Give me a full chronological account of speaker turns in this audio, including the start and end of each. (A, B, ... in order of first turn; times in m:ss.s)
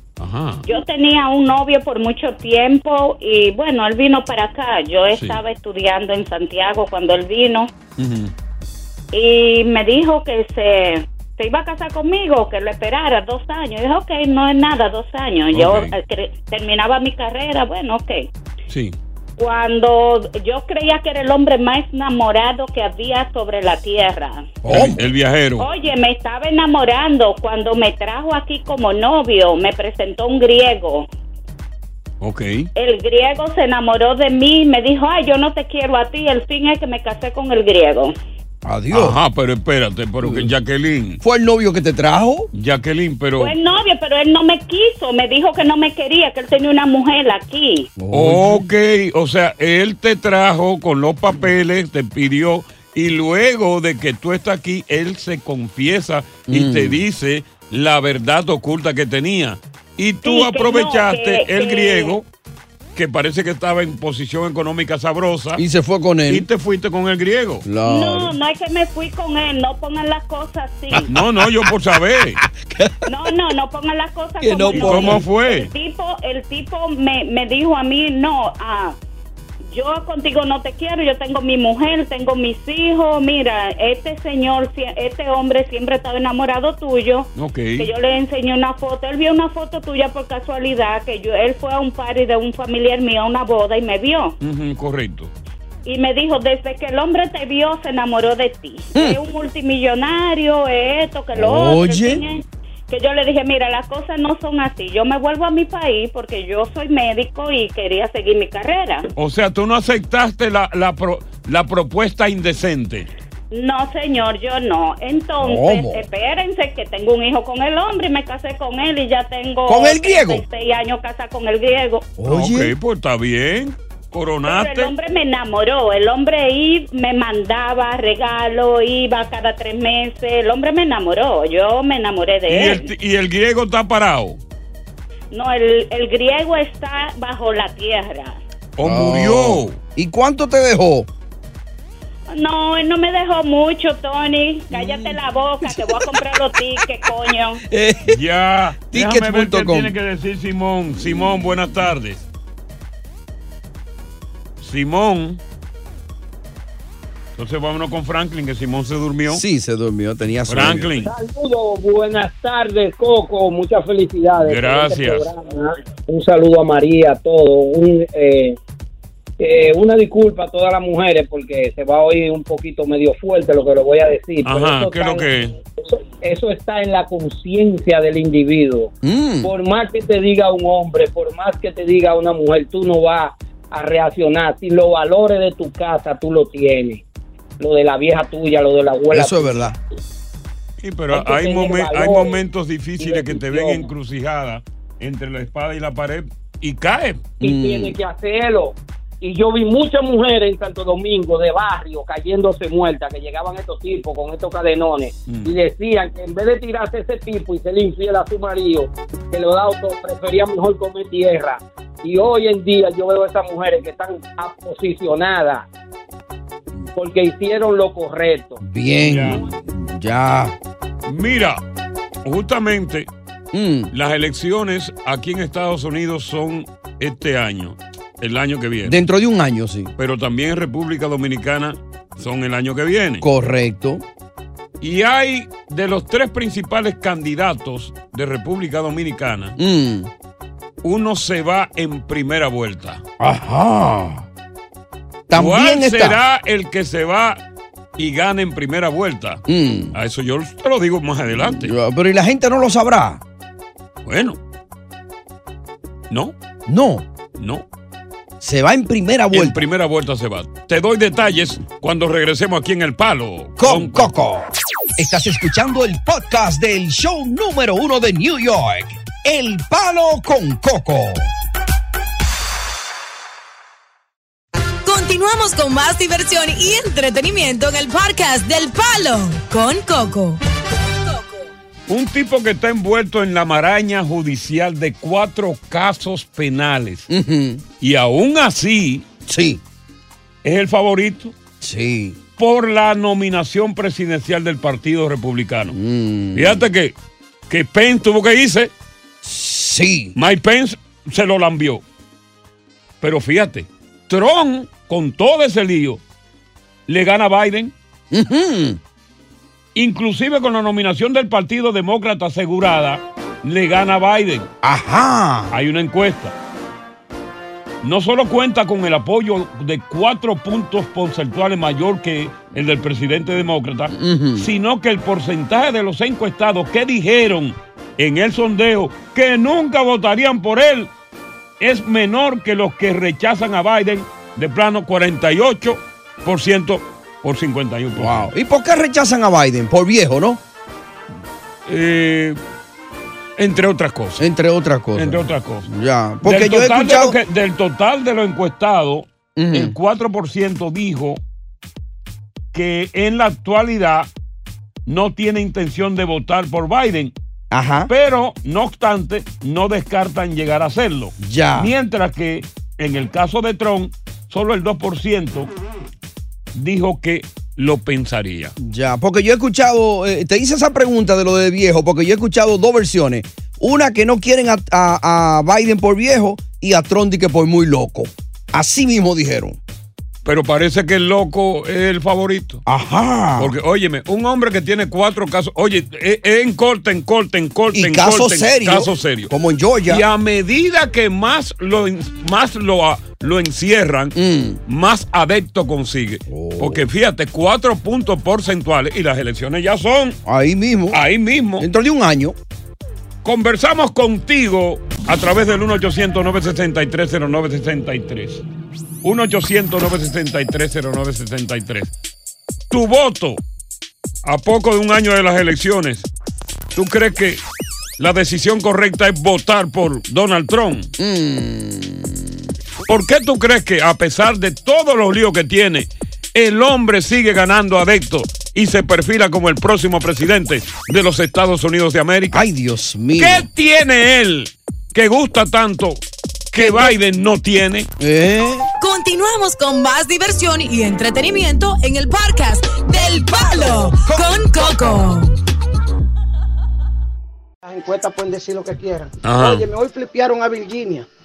0:00.2-0:00.7 A
0:00.7-0:07.7 B
0:05.1-0:05.4 A
0:08.0-0:08.3 A
0:09.1-0:18.3 B
0:15.5-0:15.9 A
0:18.7-0:19.0 A
0:19.4-0:24.5 B
0:24.6-0:25.0 C
0:24.7-0:25.7 A
0:25.6-0:31.1 B
0:32.2-0:32.7 A
0:32.8-0:38.2 B
0:38.6-0:39.2 C
0:38.9-0:41.2 A
0:40.2-0:40.5 C
0:41.2-0:42.5 C
0:42.5-0:43.5 A
0:43.4-0:47.9 B
0:48.0-0:48.7 C
0:48.1-1:02.3 A
0:56.5-0:57.0 C
1:00.2-1:02.2 B
1:03.0-1:05.6 A
1:05.6-1:06.5 C
1:06.3-1:07.6 A
1:07.6-1:08.4 C
1:07.9-1:11.1 B
1:10.9-1:13.1 C
1:11.1-1:12.4 A
1:13.1-1:19.0 B
1:14.4-1:15.2 C
1:14.7-1:15.7 A
1:19.7-1:34.4 B
1:27.4-1:27.9 A
1:34.4-1:35.3 A
1:35.8-1:49.1 B
1:41.3-1:42.2 C
1:49.2-1:53.1 A
1:53.5-2:02.1 B
1:55.4-1:56.0 C
1:59.7-2:00.4 C
2:02.2-2:02.7 C
2:02.3-2:04.9 A
2:04.4-2:12.9 B
2:12.5-2:14.4 A
2:15.3-2:18.4 B
2:18.8-2:19.8 A
2:18.8-2:21.1 C
2:22.3-2:27.6 B
2:24.7-2:26.3 C
2:27.7-2:28.2 C
2:28.1-2:32.3 A
2:28.9-2:30.0 C
2:31.0-2:31.6 C
2:34.6-2:35.4 A
2:37.4-2:39.4 A
2:39.3-2:40.9 C
2:40.5-2:41.1 A
2:41.0-2:48.6 D
2:44.4-2:45.3 A
2:49.4-3:07.0 D
2:54.4-2:55.6 A
2:59.0-2:59.5 C
3:07.6-3:09.8 D
3:09.1-3:09.8 C
3:10.8-3:17.2 A
3:11.1-3:12.4 D
3:13.0-3:13.9 D
3:17.4-3:35.7 D
3:17.4-3:18.0 C
3:25.3-3:25.6 A
3:37.0-3:38.6 D
3:38.6-3:40.6 C
3:39.0-3:39.5 A
3:41.1-3:41.6 A
3:42.2-3:43.1 A
3:43.5-3:43.9 C
3:43.9-3:49.0 A
3:48.8-3:49.9 C
3:50.0-3:53.3 A
3:53.2-3:54.0 C
3:54.8-3:59.6 A
3:59.6-4:00.1 C
4:00.8-4:03.0 A
4:03.2-4:04.3 C
4:05.3-4:06.2 C
4:05.3-4:07.4 A
4:08.0-4:11.7 A
4:09.5-4:10.0 C
4:11.4-4:13.2 C
4:14.0-4:14.4 A
4:16.1-4:16.4 A
4:16.7-4:17.0 C
4:17.4-4:17.7 A
4:18.4-4:19.6 C
4:19.3-4:24.1 A
4:23.6-4:31.3 C
4:34.8-4:41.5 E
4:41.9-4:47.1 A
4:47.1-4:47.6 C
4:47.8-4:49.1 A
4:49.3-4:49.6 C
4:50.4-4:51.4 A
4:51.6-4:52.2 C
4:52.4-4:55.8 A
4:55.7-4:56.6 C
4:56.3-4:57.0 A
4:57.5-4:58.7 A
4:59.2-5:00.2 C
5:00.2-5:01.8 A
5:03.0-5:06.0 A
5:06.9-5:07.8 A
5:08.1-5:08.8 C
5:09.8-5:14.5 A
5:14.6-5:15.5 C
5:15.5-5:16.4 A
5:17.8-5:30.9 A
5:23.9-5:24.5 C
5:31.6-5:38.3 A
5:37.9-5:40.4 C
5:41.7-5:42.4 A
5:43.4-5:44.2 A
5:44.2-5:47.2 C
5:45.0-5:45.7 A
5:46.2-5:51.2 A
5:49.4-5:49.8 C
5:52.5-5:54.1 A
5:54.9-5:57.2 A
5:57.5-5:57.9 C
5:57.9-6:05.5 A
6:01.2-6:01.7 C
6:06.5-6:08.6 A
6:08.6-6:19.6 C
6:20.2-6:22.6 A
6:22.7-6:23.6 C
6:23.4-6:29.3 A
6:27.7-6:30.0 C
6:29.9-6:40.2 A
6:34.2-6:34.6 C
6:36.3-6:36.8 C
6:40.2-6:41.0 C
6:40.9-6:41.7 A
6:41.6-6:42.4 C
6:43.2-6:48.4 A
6:49.0-6:51.9 A
6:52.7-6:53.4 A
6:54.2-6:56.1 A
6:56.8-6:57.4 A
6:58.0-7:00.9 A
7:01.0-7:02.3 C
7:02.9-7:12.4 A
7:12.3-7:13.5 C
7:13.2-7:17.9 A
7:16.6-7:17.0 C
7:18.0-7:18.7 C
7:18.8-7:25.4 E
7:23.7-7:24.6 C
7:27.6-7:31.1 F
7:29.2-7:29.7 A